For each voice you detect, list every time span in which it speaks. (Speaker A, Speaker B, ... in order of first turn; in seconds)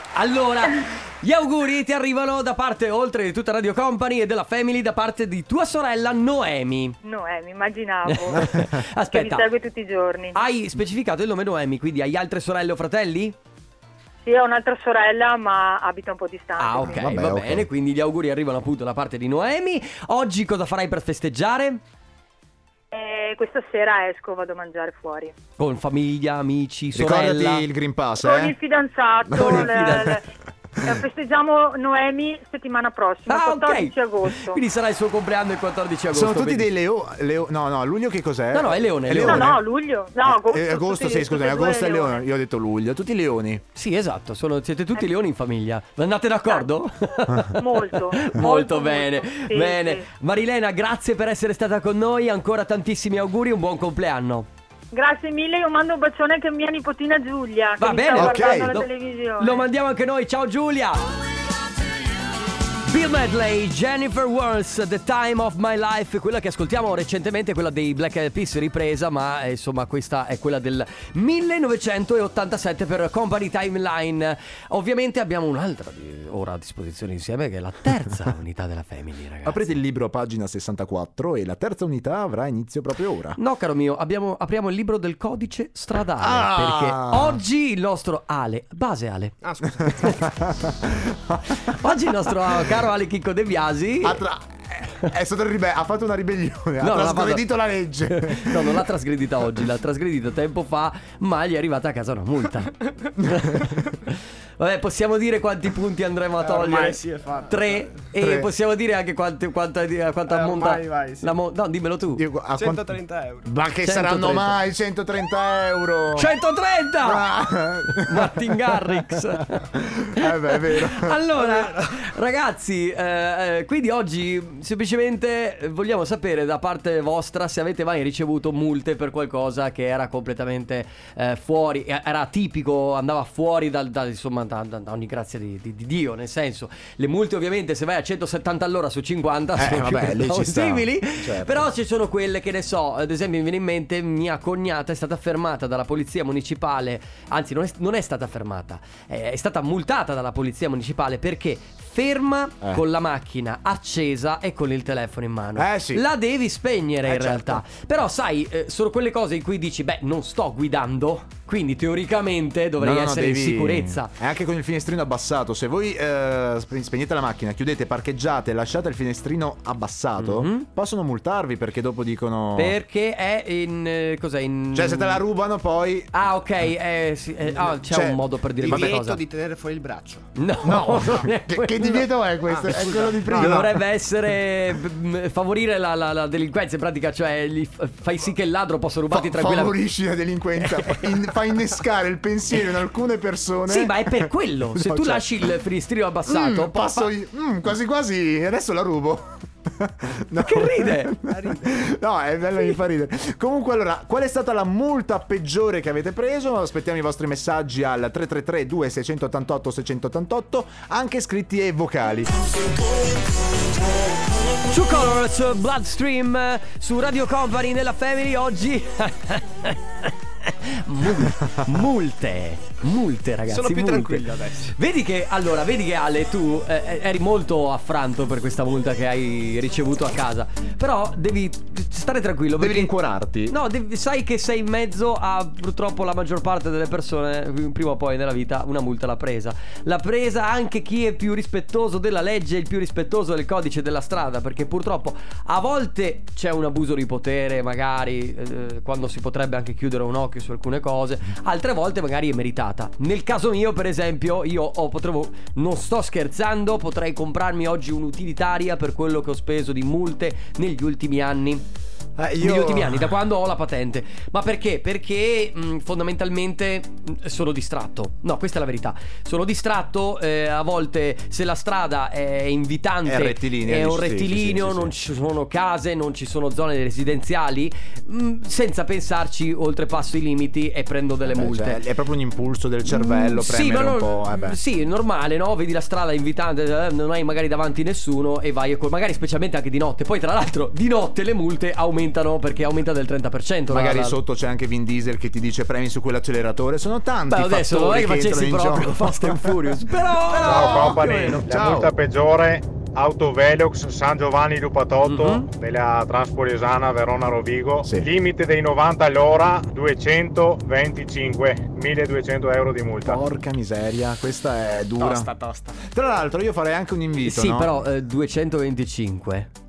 Speaker A: 0.1-7.0, 8.1-9.5, 10.3-13.4, 16.6-21.8, 25.6-27.6, 29.3-30.2, 33.3-36.7, 38.5-39.5, 43.8-54.5, 57.8-61.1, 62.9-79.6, 83.4-89.4, 91.7-94.2, 96.8-97.5, 98.1-112.2, 113.8-114.6, 116.2-117.3, 117.9-119.7, 120.2-164.1, 170.2-170.7, 172.6-175.2, 176.1-179.2, 180.3-182.1, 182.7-189.8, 190.6-191.3, 193.7-197.1, 200.4-201.1, 214.7-232.9, 233.5-261.6, 262.4-281.8, 282.9-294.2, 297.3-301.5, 305.0-305.5, 317.2-319.5
Speaker B: 7.0-10.4, 14.2-17.1, 22.9-25.4, 28.2-30.2, 30.8-34.6, 39.2-42.2, 47.6-50.1, 54.9-59.6
Speaker C: 16.8-17.7, 26.9-28.6, 29.3-29.8, 36.1-39.6, 40.2-43.6, 58.2-58.8, 79.5-83.4, 86.2-87.4, 89.9-91.6, 94.0-98.8, 103.2-103.5, 108.2-108.5, 112.2-116.3, 117.0-119.2, 119.7-121.2, 139.6-141.7, 155.6-156.1, 157.0-157.6, 162.8-172.8, 174.7-176.1, 177.8-178.9, 180.6-183.8, 189.1-195.4, 196.3-212.3, 232.6-233.6, 262.2-263.1, 273.1-275.0, 281.3-284.6, 293.7-299.8, 300.3-301.9, 313.0-315.3, 315.8-317.8
Speaker D: 89.4-90.3, 102.8-103.1, 106.4-108.0, 110.3-111.4, 112.5-113.5, 178.6-180.3, 182.5-183.6, 201.3-201.8, 223.5-224.7, 315.0-315.8
Speaker E: 300.4-313.2